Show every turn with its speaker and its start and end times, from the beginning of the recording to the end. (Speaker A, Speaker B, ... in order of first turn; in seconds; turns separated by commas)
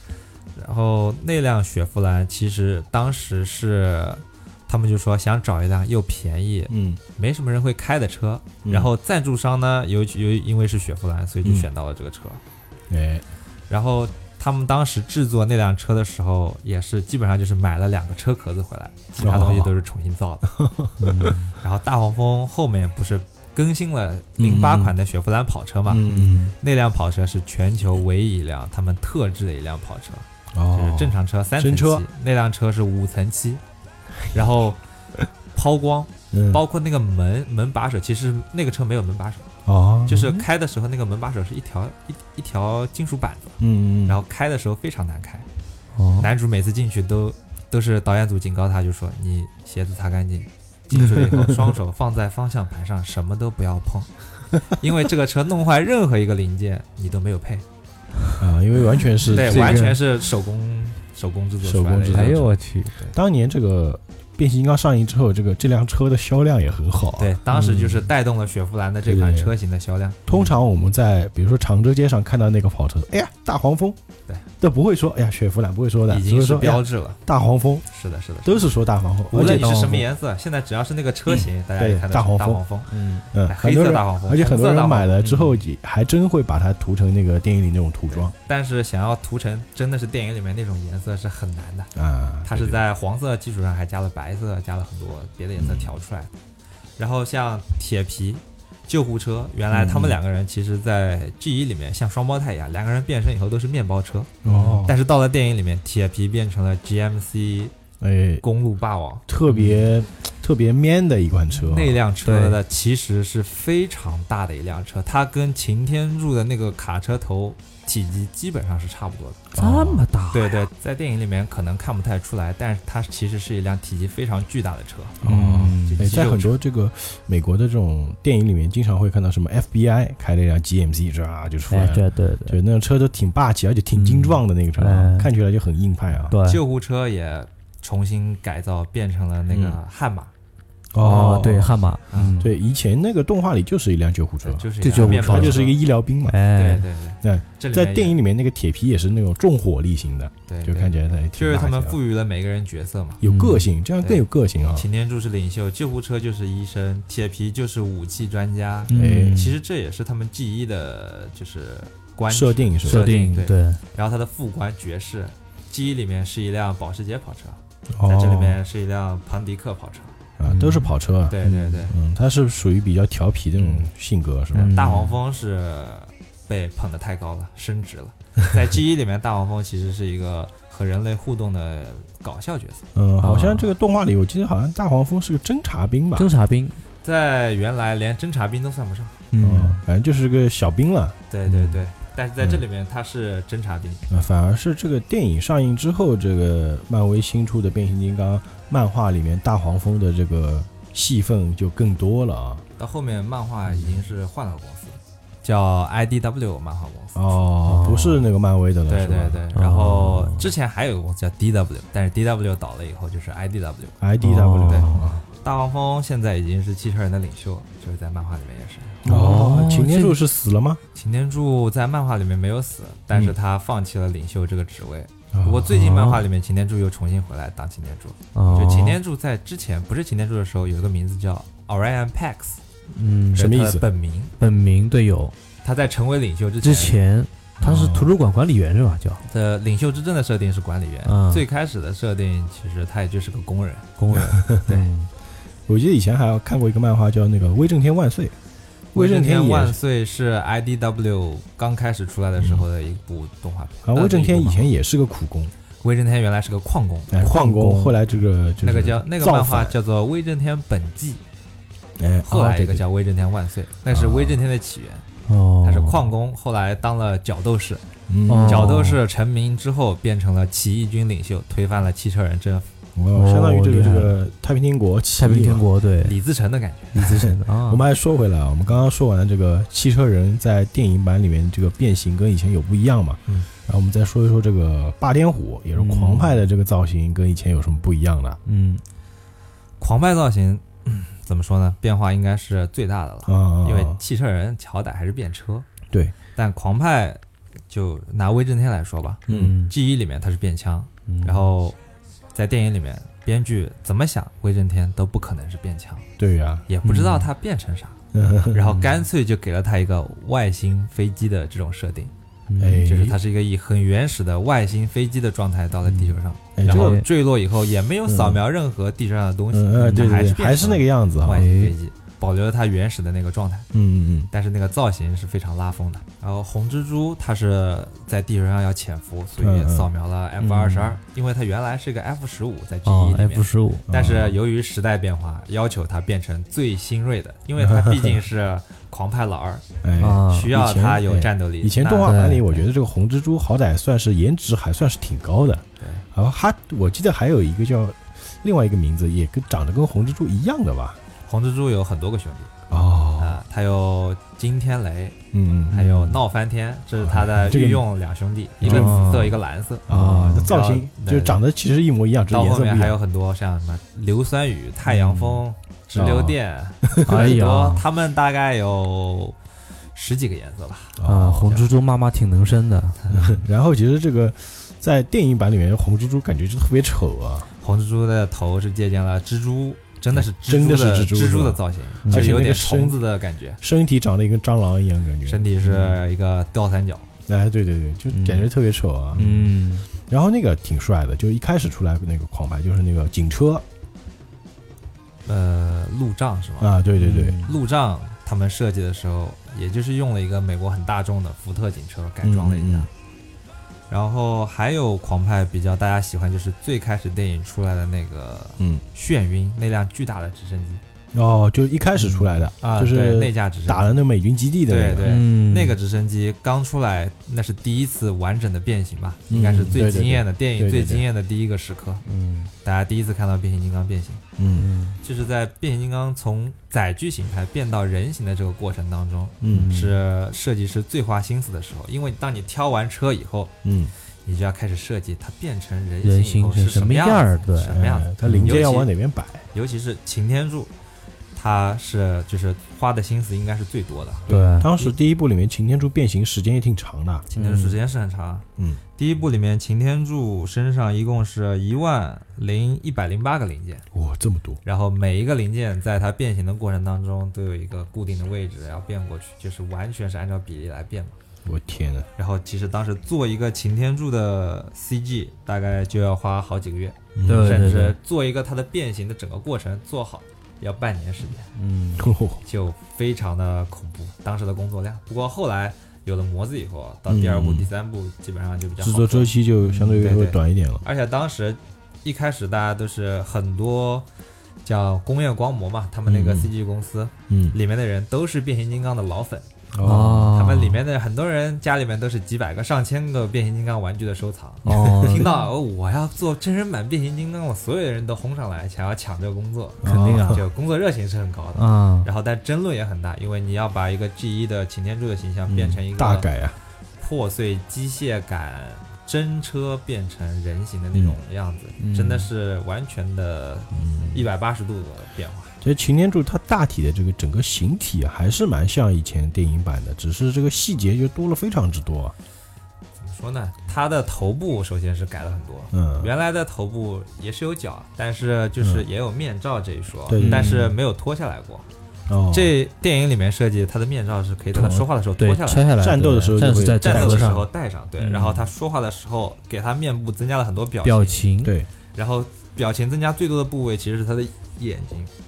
Speaker A: 0.6-12.4, Speaker B: 6.7-7.0, Speaker B: 8.6-8.9, Speaker B: 12.9-13.2, Speaker A: 13.7-20.5, Speaker B: 19.2-19.7, Speaker B: 20.5-21.4, Speaker C: 21.0-21.5, Speaker A: 21.6-26.1, Speaker B: 24.4-24.9, Speaker B: 25.9-26.6, Speaker C: 26.1-26.4, Speaker A: 26.6-33.6, Speaker B: 30.5-32.0, Speaker A: 34.2-34.8, Speaker A: 35.5-39.5, Speaker B: 36.3-36.6, Speaker B: 39.7-40.4, Speaker A: 40.1-45.5, Speaker B: 43.6-44.2, Speaker C: 46.0-46.3, Speaker A: 46.2-54.1, Speaker B: 51.0-51.7, Speaker A: 54.6-57.6, Speaker B: 58.4-60.0, Speaker A: 59.3-63.1, Speaker C: 59.3-60.0, Speaker B: 61.6-62.5, Speaker C: 62.1-62.9, Speaker B: 63.1-67.4, Speaker A: 67.2-70.2, Speaker C: 67.5-68.1, Speaker B: 69.1-69.5, Speaker B: 70.3-74.0, Speaker B: 74.6-77.9, Speaker A: 76.1-77.2, Speaker A: 77.9-78.7, Speaker B: 78.5-80.0, Speaker A: 79.3-82.9, Speaker C: 79.3-80.0, Speaker B: 81.3-82.6, Speaker C: 82.9-83.2, Speaker B: 83.3-88.3, Speaker A: 83.4-85.3, Speaker C: 85.2-85.6, Speaker A: 88.1-91.9, Speaker B: 92.0-92.8, Speaker A: 92.5-96.3, Speaker B: 95.6-95.9, Speaker A: 97.0-104.3, Speaker B: 99.7-100.2, Speaker B: 104.4-105.0, Speaker C: 104.5-104.8, Speaker A: 104.8-107.7, Speaker B: 108.0-108.4, Speaker A: 108.4-109.2, Speaker B: 109.3-112.0, Speaker C: 109.5-109.9, Speaker A: 111.6-119.4, Speaker C: 112.2-112.6, Speaker B: 119.5-120.0, Speaker C: 119.6-120.7, Speaker A: 120.3-125.2, Speaker B: 125.2-136.4, Speaker C: 125.2-126.1, Speaker A: 125.8-126.6, Speaker C: 131.7-132.6, Speaker C: 133.9-135.3, Speaker C: 136.3-136.6, Speaker A: 136.4-140.3, Speaker B: 139.5-139.8, Speaker B: 140.9-141.8, Speaker C: 141.0-142.5, Speaker B: 142.4-146.4, Speaker A: 144.4-145.8, Speaker C: 144.8-145.6, Speaker C: 146.3-146.9, Speaker A: 146.5-148.2, Speaker B: 147.2-152.0, Speaker A: 150.5-153.2, Speaker B: 153.2-154.9, Speaker C: 153.2-153.7, Speaker A: 154.0-170.2, Speaker C: 158.9-159.6, Speaker B: 158.9-159.4, Speaker B: 162.3-163.2, Speaker C: 162.8-163.8, Speaker B: 167.9-168.6, Speaker B: 170.4-174.7, Speaker C: 170.4-170.9, Speaker A: 171.3-171.9, Speaker C: 171.4-171.8, Speaker A: 173.6-173.9, Speaker A: 174.5-182.8, Speaker C: 174.6-175.2, Speaker B: 182.9-186.3, Speaker C: 183.2-183.7, Speaker C: 186.2-186.8, Speaker A: 187.0-189.2, Speaker C: 189.3-189.8, Speaker B: 189.4-191.6, Speaker A: 191.3-194.0, Speaker B: 194.1-202.6, Speaker A: 202.8-207.3, Speaker C: 203.7-204.0, Speaker B: 207.1-209.4, Speaker C: 207.7-208.2, Speaker A: 208.9-214.0, Speaker C: 209.5-210.5, Speaker B: 214.0-215.2, Speaker C: 214.2-215.1, Speaker A: 214.7-219.0, Speaker B: 219.0-220.8, Speaker C: 219.1-220.2, Speaker A: 220.9-232.6, Speaker B: 225.3-225.7, Speaker C: 225.7-226.2, Speaker C: 228.3-229.0, Speaker C: 232.9-233.5, Speaker B: 233.3-233.8, Speaker A: 233.4-234.3, Speaker C: 234.4-235.3, Speaker A: 235.6-237.0, Speaker C: 236.6-239.2, Speaker B: 237.6-238.1, Speaker A: 239.2-243.9, Speaker C: 241.1-241.4, Speaker C: 244.0-245.1, Speaker B: 244.1-244.6, Speaker B: 245.7-248.3, Speaker B: 248.9-249.8, Speaker A: 248.9-254.7, Speaker B: 252.4-252.7, Speaker B: 253.8-255.5, Speaker A: 255.8-257.8, Speaker B: 257.1-259.8, Speaker C: 257.4-257.7, Speaker A: 258.6-261.2, Speaker B: 262.0-262.8, Speaker A: 262.3-265.1, Speaker B: 263.9-264.4, Speaker C: 265.3-266.1, Speaker A: 265.6-267.8, Speaker B: 268.1-268.8, Speaker C: 268.3-269.0, Speaker A: 268.4-272.7, Speaker B: 273.0-275.6, Speaker C: 273.1-274.1, Speaker C: 275.2-276.2, Speaker A: 276.0-277.1, Speaker C: 276.9-277.9, Speaker B: 277.2-288.4, Speaker C: 285.8-286.4, Speaker C: 288.5-288.8, Speaker A: 289.8-295.7, Speaker B: 293.3-294.0, Speaker A: 296.4-301.8, Speaker B: 299.3-299.6, Speaker C: 299.3-299.7, Speaker C: 301.1-301.5, Speaker A: 302.3-306.1, Speaker B: 306.2-306.7, Speaker A: 306.7-308.0, Speaker C: 306.8-307.3, Speaker B: 308.1-308.7, Speaker A: 308.5-312.1, Speaker C: 312.5-312.9, Speaker B: 312.6-313.2, Speaker A: 312.8-323.7, Speaker C: 315.9-317.1, Speaker B: 316.6-317.0, Speaker B: 318.1-318.4, Speaker B: 319.5-321.5, Speaker C: 319.8-320.1, Speaker C: 321.2-321.8, Speaker B: 323.7-324.3, Speaker A: 324.3-339.6, Speaker B: 329.4-329.9, Speaker C: 330.4-331.0, Speaker C: 332.9-333.9, Speaker B: 333.9-334.4, Speaker B: 337.6-338.1, Speaker B: 339.8-351.0, Speaker C: 340.0-340.5, Speaker A: 340.2-342.2, Speaker C: 342.0-342.6, Speaker A: 345.8-346.1, Speaker A: 351.3-352.5, Speaker B: 352.7-353.4, Speaker A: 353.2-355.2, Speaker B: 355.3-356.1, Speaker A: 355.7-361.4, Speaker C: 355.7-356.1, Speaker B: 357.0-357.9, Speaker B: 358.6-359.3, Speaker C: 358.6-360.5, Speaker B: 359.9-363.0, Speaker A: 362.3-369.4, Speaker B: 365.9-367.3, Speaker C: 367.0-367.9, Speaker A: 369.9-371.7, Speaker B: 371.0-371.6, Speaker C: 371.0-373.4, Speaker B: 373.1-377.5, Speaker A: 377.6-383.6, Speaker B: 380.1-383.0, Speaker C: 382.1-382.4, Speaker B: 383.6-385.5, Speaker A: 385.2-387.1, Speaker C: 385.6-386.0, Speaker B: 387.3-389.5, Speaker C: 388.1-388.5, Speaker C: 389.1-389.9, Speaker B: 390.1-393.6, Speaker A: 395.3-396.7, Speaker B: 396.6-397.4, Speaker C: 397.0-397.6, Speaker A: 397.4-402.9, Speaker B: 402.2-402.9, Speaker A: 403.9-410.8, Speaker B: 411.1-415.2, Speaker C: 412.0-412.4, Speaker A: 412.6-414.0, Speaker A: 414.7-422.0, Speaker C: 415.1-415.8, Speaker B: 419.3-421.0, Speaker C: 422.1-422.5, Speaker A: 422.6-424.2, Speaker B: 424.4-424.7, Speaker C: 424.6-425.0, Speaker A: 425.0-433.5, Speaker B: 429.4-429.7, Speaker C: 429.5-430.0, Speaker B: 433.6-433.9, Speaker A: 434.2-438.9, Speaker C: 436.0-438.6, Speaker B: 437.8-439.5, Speaker A: 439.5-440.7, Speaker A: 441.4-444.9, Speaker C: 444.3-444.7, Speaker B: 444.6-447.3, Speaker A: 447.3-448.4, Speaker C: 447.4-447.8, Speaker A: 449.0-453.9, Speaker B: 453.9-454.6, Speaker A: 454.6-461.2, Speaker B: 461.4-462.1, Speaker A: 462.2-471.5, Speaker B: 467.1-467.7, Speaker C: 467.3-468.0, Speaker C: 471.6-472.0, Speaker B: 471.9-472.4, Speaker A: 472.4-479.3, Speaker B: 477.1-477.7, Speaker B: 478.8-480.8, Speaker C: 479.6-480.0, Speaker A: 480.0-484.1, Speaker A: 484.6-506.3, Speaker B: 486.1-486.5, Speaker B: 487.3-487.6, Speaker B: 489.7-490.4, Speaker C: 489.8-490.8, Speaker C: 494.6-495.3, Speaker B: 494.8-495.3, Speaker B: 499.8-500.4, Speaker C: 499.8-500.4, Speaker C: 501.6-502.1, Speaker B: 505.5-506.6, Speaker A: 507.0-515.6, Speaker C: 511.8-512.3, Speaker B: 513.7-514.3, Speaker B: 515.6-522.1, Speaker A: 523.0-531.7, Speaker B: 525.7-526.1, Speaker B: 530.1-530.6, Speaker C: 530.2-530.7, Speaker B: 532.1-532.5, Speaker A: 532.3-535.7, Speaker B: 534.5-534.9, Speaker C: 535.2-537.5, Speaker B: 535.8-537.4, Speaker A: 536.7-541.3, Speaker C: 538.0-538.5, Speaker C: 540.8-541.5, Speaker B: 541.4-541.7, Speaker A: 542.0-545.1